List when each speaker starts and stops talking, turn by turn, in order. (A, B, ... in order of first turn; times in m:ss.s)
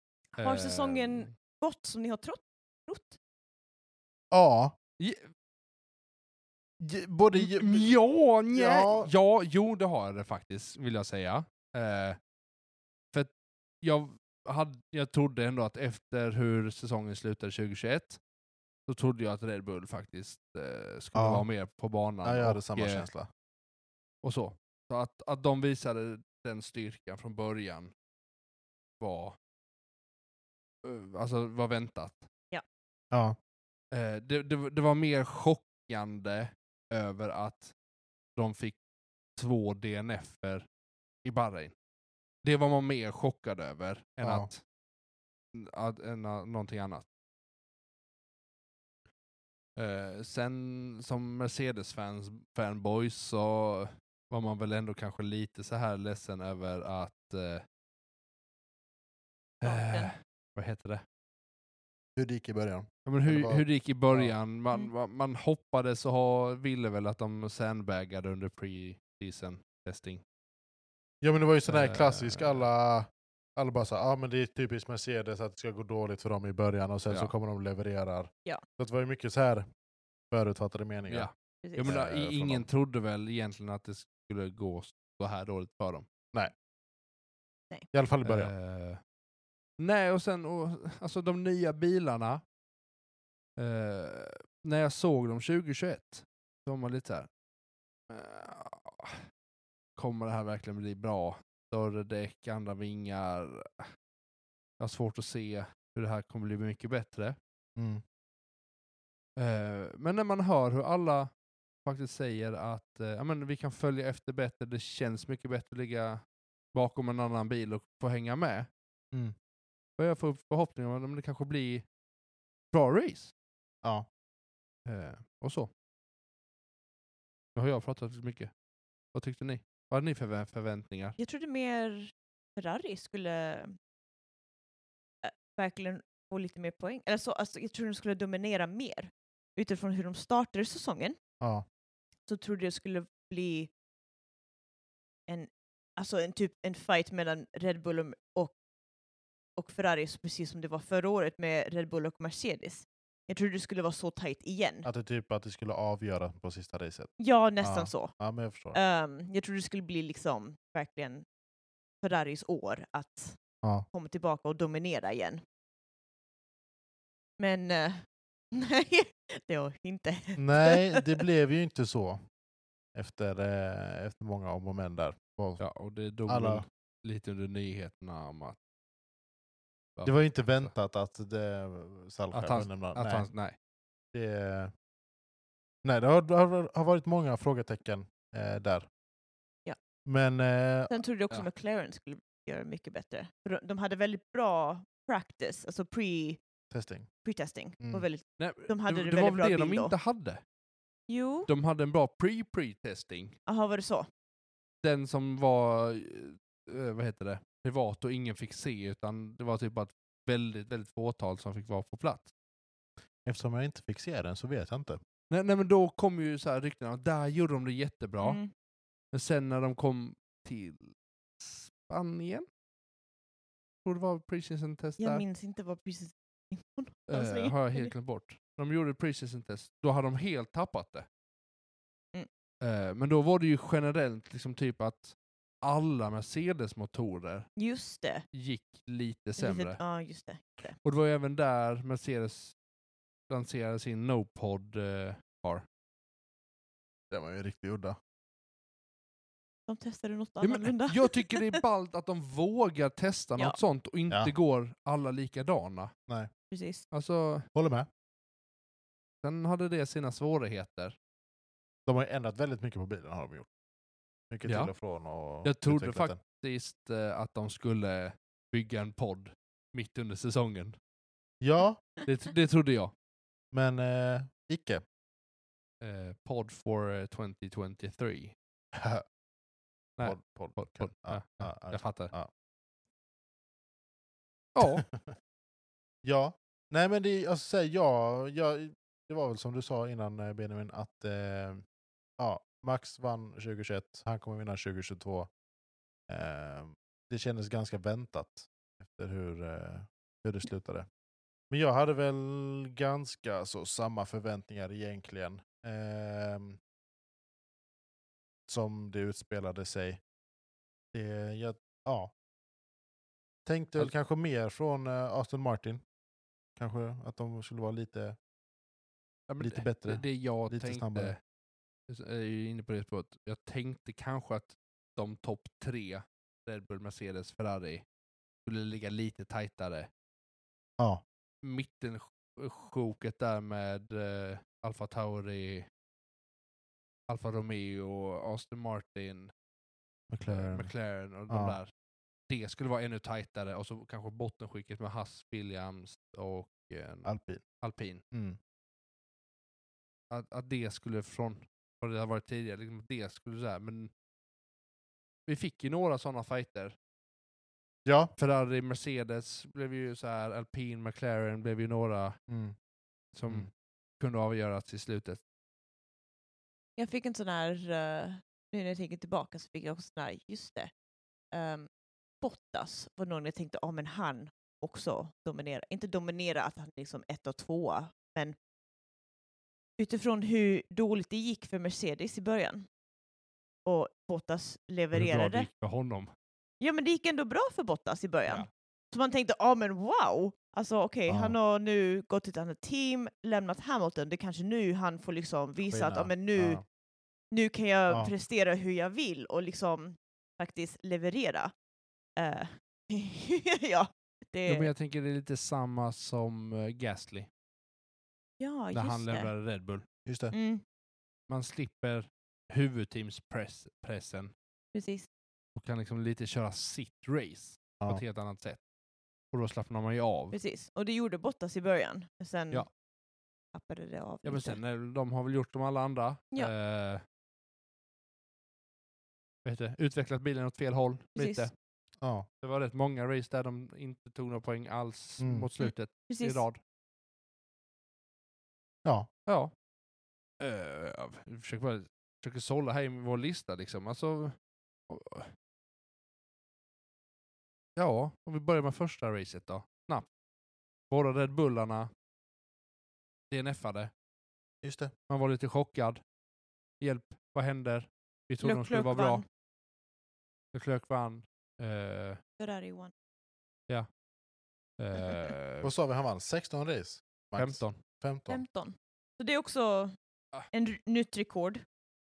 0:00.4-0:03.2 A
0:00.4-0:01.3 B
0:04.3-0:04.7 C
0:05.0-0:05.3 B
0:06.8-0:07.9 C
0:07.4-0:12.2 B
0:08.5-0:09.1 C
0:13.1-0:18.2 B
0:18.9-0:23.0 B
0:21.1-0:21.4 C
0:22.2-0:23.3 C
0:24.2-0:27.9 B
0:29.0-0:29.4 B
0:30.8-0:32.3 B
0:33.1-0:33.4 C
0:33.9-0:37.7 B
0:38.4-0:38.8 B
0:39.4-0:40.6 B
0:41.2-0:41.7 B
0:42.4-0:44.6 B
0:44.2-0:44.5 C
0:45.5-0:47.0 B
0:49.8-0:57.6 B
0:59.6-1:01.0 B
0:59.6-1:00.1 A
1:02.2-1:04.3 C
1:03.0-1:10.2 B
1:11.2-1:19.7 C
1:11.7-1:12.6 B
1:20.3-1:21.3 C
1:21.1-1:26.1 B
1:21.6-1:22.0 A
1:21.8-1:22.6 C
1:27.9-1:28.5 C
1:28.2-1:29.0 B
1:29.8-1:32.4 B
1:33.6-1:37.3 B
1:38.1-1:39.2 B
1:40.0-1:43.9 B
1:44.8-1:47.4 B
1:47.8-1:48.0 C
1:49.4-1:51.3 B
1:51.8-1:56.2 B
1:56.7-1:58.7 B
2:00.0-2:01.8 B
2:02.7-2:03.3 B
2:04.8-2:05.7 B
2:07.6-2:08.5 B
2:09.1-2:11.2 B
2:11.2-2:13.8 A
2:15.2-2:21.2 A
2:22.3-2:23.7 A
2:25.3-2:28.5 A
2:29.6-2:34.9 A
2:34.8-2:38.8 C
2:37.2-2:38.1 A
2:38.7-2:41.2 A
2:42.0-2:43.4 A
2:43.9-2:45.4 A
2:47.4-2:51.0 A
2:50.4-2:52.2 C
2:52.9-2:55.6 C
2:55.6-2:58.6 B
2:56.3-2:56.6 C
3:00.0-3:00.7 B
3:00.0-3:03.3 C
3:02.3-3:03.6 B
3:04.1-3:04.7 C
3:05.8-3:08.9 C
3:10.0-3:11.0 C
3:10.9-3:16.4 A
3:16.7-3:17.1 C
3:17.2-3:19.9 A
3:18.4-3:20.4 B
3:21.1-3:21.5 A
3:21.5-3:23.4 B
3:23.5-3:24.1 A
3:24.8-3:32.3 B
3:33.2-3:35.0 C
3:35.3-3:38.4 B
3:38.2-3:38.5 A
3:39.1-3:42.4 B
3:43.8-3:45.2 B
3:45.0-3:47.9 A
3:47.1-3:51.1 B
3:52.6-3:57.5 B
3:57.6-3:58.2 A
3:58.3-3:59.8 B
3:59.4-4:00.8 A
4:00.8-4:02.5 B
4:03.3-4:05.6 B
4:07.1-4:08.0 C
4:09.7-4:11.6 A
4:10.4-4:15.9 B
4:16.5-4:16.8 A
4:16.9-4:17.4 B
4:17.5-4:17.9 C
4:19.2-4:20.9 B
4:21.8-4:23.5 C
4:24.3-4:26.2 C
4:24.4-4:24.7 B
4:25.4-4:30.8 B
4:31.4-4:31.8 C
4:32.0-4:32.9 B
4:33.5-4:34.8 C
4:35.8-4:38.3 B
4:38.7-4:39.0 C
4:40.0-4:42.1 B
4:40.0-4:42.3 C
4:44.6-4:44.8 B
4:44.6-4:45.1 C
4:46.0-4:51.6 C
4:52.2-4:55.3 C
4:56.1-5:00.9 C
5:01.5-5:06.6 C
5:08.5-5:10.0 C
5:10.9-5:12.1 C
5:13.4-5:15.8 C
5:16.6-5:18.2 C
5:19.3-5:21.2 B
5:19.4-5:21.1 C
5:21.9-5:27.8 B
5:28.4-5:29.9 B
5:31.4-5:35.7 B
5:37.1-5:39.3 B
5:40.1-5:40.7 C
5:40.3-5:41.7 B
5:41.3-5:41.6 C
5:42.3-5:47.1 B
5:47.0-5:47.4 C
5:47.6-5:48.0 B
5:48.1-5:48.4 C
5:50.1-5:53.9 B
5:55.2-5:56.7 B
5:57.8-5:58.1 C
5:58.2-6:02.2 B
6:02.3-6:02.5 C
6:03.1-6:05.2 B
6:06.8-6:10.7 A
6:11.3-6:11.7 A
6:12.2-6:18.4 A
6:19.8-6:22.6 A
6:23.6-6:25.5 A
6:24.9-6:26.1 B
6:26.6-6:36.6 A
6:31.1-6:31.4 C
6:35.6-6:36.6 C
6:37.3-6:41.5 A
6:42.2-6:44.7 A
6:44.4-6:47.3 B
6:48.4-6:49.3 A
6:48.7-6:49.8 B
6:50.0-6:50.3 C
6:50.3-6:50.6 A
6:51.3-6:54.3 B
6:54.7-6:55.1 A
6:55.6-6:58.6 B
6:59.3-7:00.4 B
7:00.3-7:02.6 A
7:03.5-7:04.6 A
7:04.2-7:07.0 B
7:09.4-7:11.5 B
7:11.2-7:11.5 A
7:12.0-7:12.3 C
7:12.4-7:16.6 B
7:15.2-7:15.5 C
7:15.6-7:16.4 A
7:19.3-7:19.5 B
7:20.4-7:24.4 B
7:24.9-7:25.3 B
7:27.8-7:30.0 B
7:30.9-7:31.9 B
7:33.3-7:33.9 B
7:34.6-7:34.9 C
7:35.1-7:36.0 B
7:36.8-7:39.2 B
7:38.4-7:39.2 A
7:40.5-7:42.2 B
7:42.4-7:42.9 A
7:44.8-7:45.7 B
7:44.9-7:45.3 A
7:45.6-7:48.4 C
7:47.4-7:47.8 B
7:48.3-7:50.0 A
7:50.5-7:51.6 A